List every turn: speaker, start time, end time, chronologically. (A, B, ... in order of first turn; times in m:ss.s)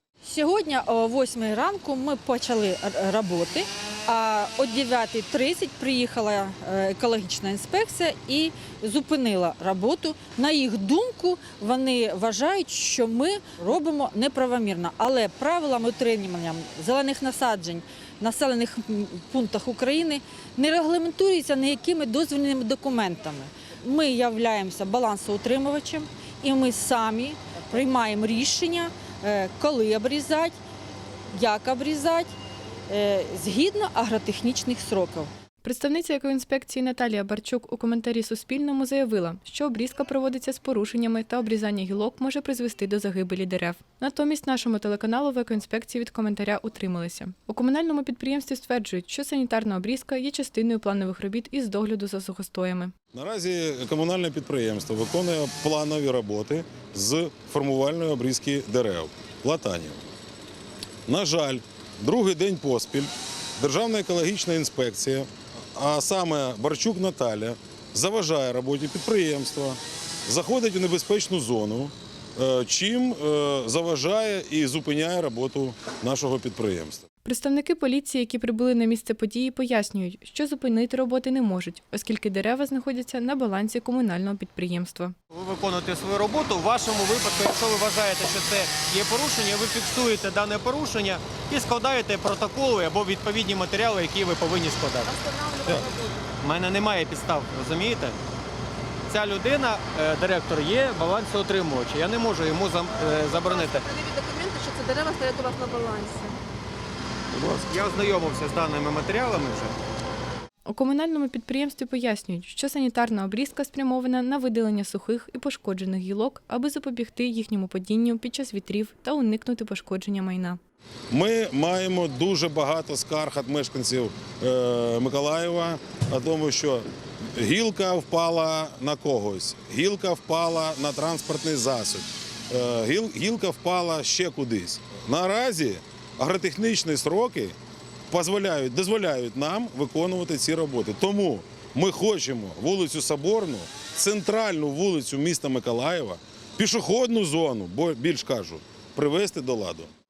0:00.2-0:30.6 A
0:31.3-0:32.3 A
0:32.9-0:35.3 A
0:35.6-0:52.9 B
0:53.1-1:00.0 C
1:01.1-1:17.0 C
1:17.2-1:25.1 B
1:25.3-1:35.1 D
1:35.0-1:36.2 E
1:36.4-1:38.2 D
1:39.1-1:43.9 D
1:43.1-1:46.4 E
1:47.3-1:47.7 C
1:47.7-1:49.7 D
1:50.6-2:00.6 B
2:01.1-2:17.6 C
2:18.1-2:29.9 C